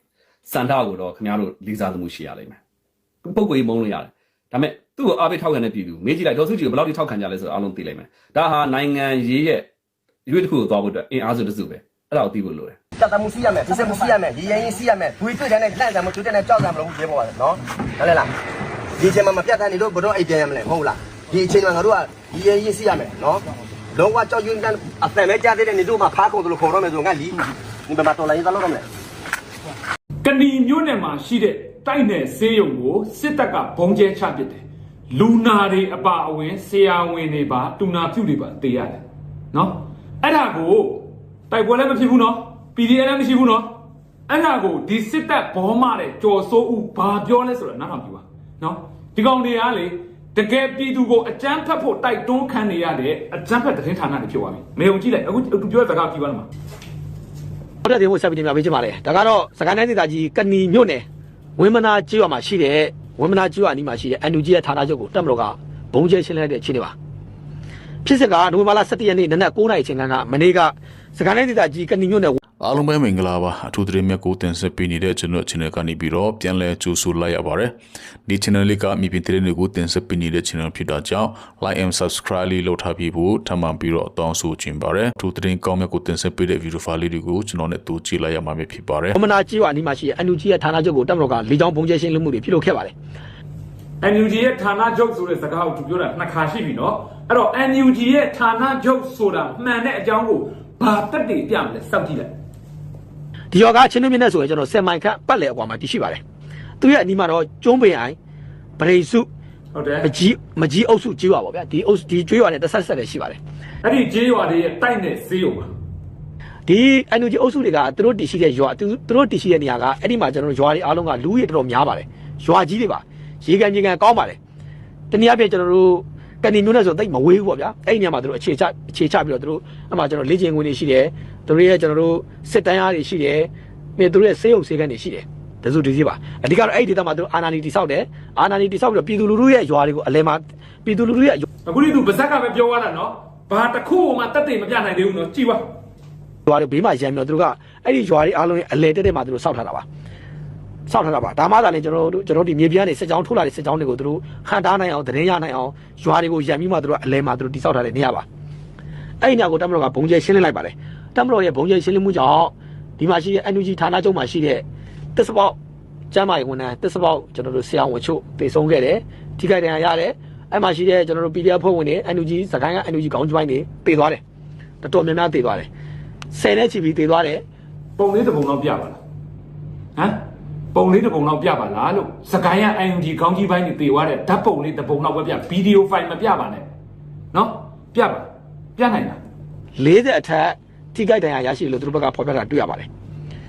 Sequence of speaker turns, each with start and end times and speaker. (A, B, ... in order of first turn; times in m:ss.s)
0:00.4-0:02.6 A
0:03.2-0:09.7 A
0:10.2-0:12.8 A
0:13.0-0:18.3 B
0:19.0-0:23.4 B
0:23.9-0:28.8 B
0:30.2-0:43.7 C
0:44.3-0:56.5 C
0:57.8-1:01.0 D
1:01.6-1:06.9 D
1:08.0-1:12.4 D
1:12.6-1:17.7 E
1:18.2-1:29.2 E
1:29.1-1:32.9 D
1:34.0-1:42.3 C
1:43.5-1:46.2 D
1:46.8-1:48.2 D
1:48.8-1:49.3 D
1:49.7-1:50.1 C
1:50.0-1:53.4 D
1:53.8-1:55.7 C
1:56.7-2:04.4 D
2:05.1-2:21.4 D
2:21.6-2:25.6 C
2:26.4-2:29.8 D
2:30.9-2:38.2 D
2:39.2-2:45.6 D
2:46.1-2:54.2 D
2:54.8-2:55.7 D
2:56.3-2:57.4 D
2:58.0-2:59.0 C
3:00.0-3:00.2 C
3:00.7-3:06.7 C
3:07.3-3:09.2 C
3:09.8-3:12.9 D